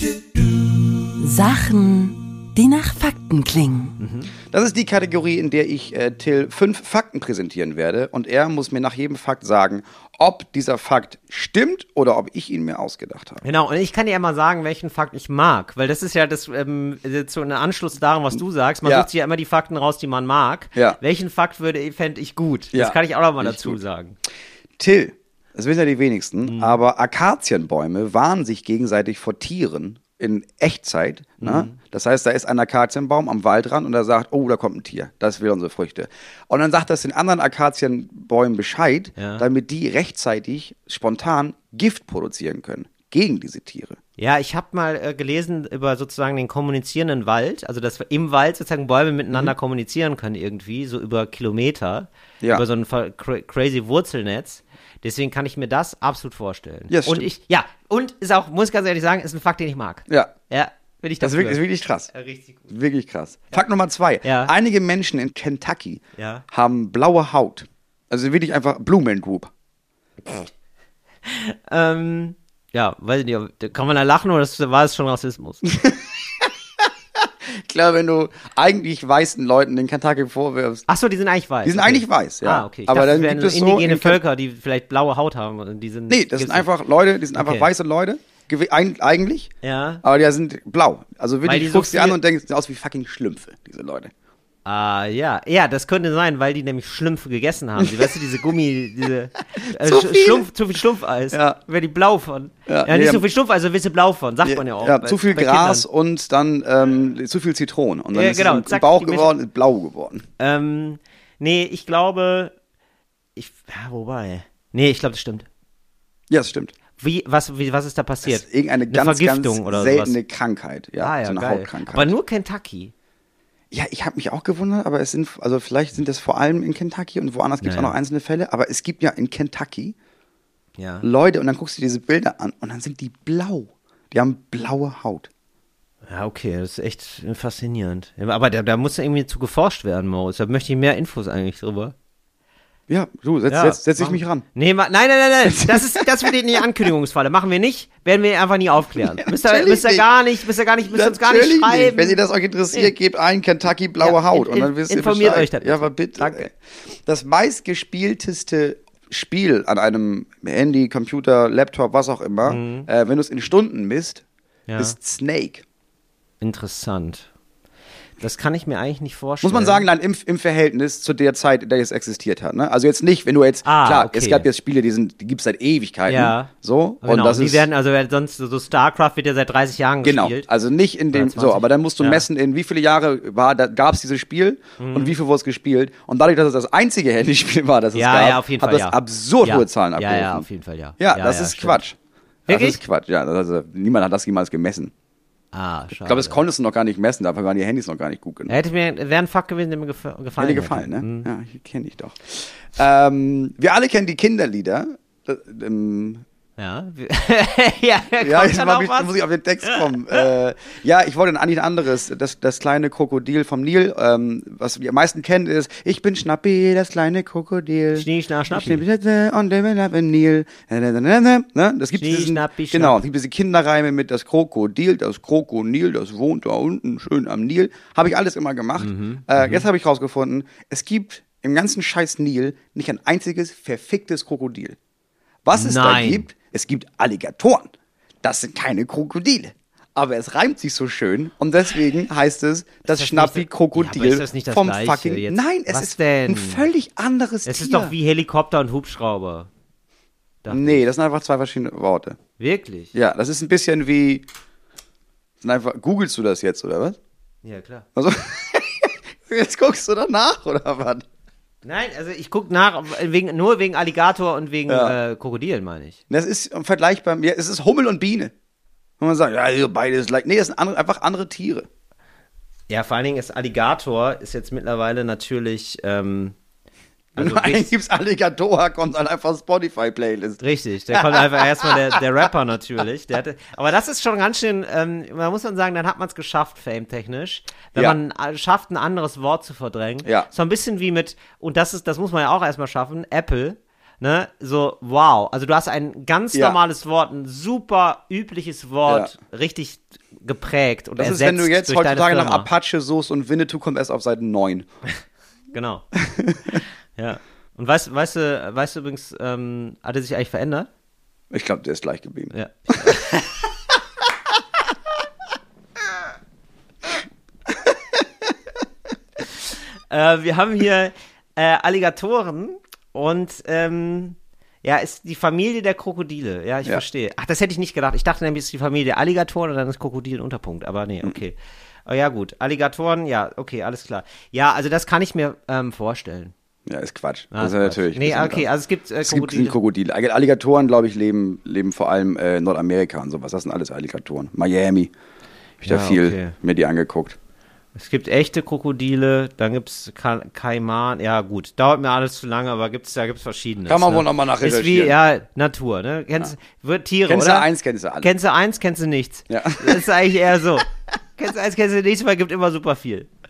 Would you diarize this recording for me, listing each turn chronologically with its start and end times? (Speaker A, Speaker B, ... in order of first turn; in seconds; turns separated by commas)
Speaker A: 1.2-4.0, Speaker B: 4.0-4.3, Speaker C: 4.5-13.4, Speaker B: 13.4-24.2, Speaker C: 22.7-23.8, Speaker C: 24.8-44.0, Speaker B: 26.5-26.8, Speaker B: 31.4-31.8, Speaker B: 39.2-39.4, Speaker B: 44.2-61.6, Speaker C: 56.9-57.3, Speaker C: 60.1-60.3, Speaker C: 61.2-62.1, Speaker B: 62.1-62.7, Speaker C: 62.7-69.5, Speaker B: 64.2-64.5, Speaker B: 66.2-66.4, Speaker B: 71.3-75.7, Speaker C: 75.7-76.5, Speaker C: 77.5-80.9, Speaker B: 80.9-86.7, Speaker C: 81.6-84.2, Speaker C: 86.1-89.5, Speaker B: 87.3-87.7, Speaker B: 89.6-90.0, Speaker C: 90.0-94.1, Speaker B: 91.4-92.2, Speaker B: 94.7-105.8, Speaker C: 97.8-98.1, Speaker C: 99.7-100.5, Speaker C: 101.3-101.6, Speaker C: 102.7-103.2, Speaker C: 104.4-110.2, Speaker B: 108.1-109.3, Speaker B: 110.4-112.5, Speaker B: 113.4-115.5, Speaker C: 116.3-116.7, Speaker B: 117.0-120.2, Speaker C: 118.2-122.1, Speaker B: 121.0-122.9, Speaker C: 123.7-129.9, Speaker B: 127.6-128.0, Speaker B: 130.8-131.1, Speaker C: 131.0-135.3, Speaker B: 136.1-141.9, Speaker C: 142.9-144.4, Speaker B: 143.5-152.2, Speaker C: 145.5-146.1, Speaker C: 148.9-150.1, Speaker C: 150.8-164.2, Speaker B: 154.0-156.5, Speaker B: 162.5-162.9, Speaker B: 164.7-164.9, Speaker C: 164.8-165.6, Speaker B: 166.4-167.3, Speaker B: 168.2-169.8, Speaker C: 169.4-177.7, Speaker B: 173.6-174.5, Speaker B: 176.1-176.5, Speaker B: 177.0-180.5, Speaker C: 180.0-190.5, Speaker B: 181.1-182.2, Speaker B: 184.8-185.2, Speaker B: 187.9-191.8, Speaker C: 191.0-192.0, Speaker B: 192.5-192.8, Speaker C: 192.5-194.9, Speaker B: 195.5-196.4, Speaker C: 196.0-198.5, Speaker B: 198.5-201.3, Speaker C: 200.4-206.2, Speaker B: 206.6-209.1, Speaker C: 208.2-234.8, Speaker B: 209.6-210.3, Speaker B: 218.0-218.8, Speaker B: 221.9-223.0, Speaker B: 228.8-229.7, Speaker C: 235.4-237.7, Speaker B: 235.5-236.3, Speaker C: 238.2-247.9, Speaker B: 242.9-246.6, Speaker B: 247.5-249.5, Speaker B: 250.4-250.8, Speaker C: 250.5-252.2, Speaker B: 252.4-252.9, Speaker C: 252.9-254.2, Speaker C: 255.4-257.0, Speaker B: 257.4-257.9, Speaker C: 258.0-261.1, Speaker B: 261.6-266.0, Speaker C: 264.7-265.0, Speaker C: 266.1-268.3, Speaker C: 269.0-271.7, Speaker B: 272.7-276.4, Speaker B: 277.1-277.7, Speaker C: 277.2-280.4, Speaker B: 280.4-302.5, Speaker C: 280.9-282.0, Speaker C: 290.0-290.3, Speaker C: 298.9-299.1, Speaker C: 301.0-304.7, Speaker B: 305.5-305.9, Speaker C: 306.0-306.6, Speaker B: 307.0-310.7, Speaker C: 311.3-313.0, Speaker B: 312.3-313.3, Speaker B: 319.9-336.3, Speaker C: 336.7-338.5, Speaker B: 337.3-339.6, Speaker C: 339.1-344.9, Speaker C: 345.6-347.2, Speaker B: 345.6-346.4, Speaker B: 347.8-357.5, Speaker C: 353.7-354.9, Speaker C: 357.1-358.1, Speaker B: 358.0-363.1, Speaker C: 359.3-359.8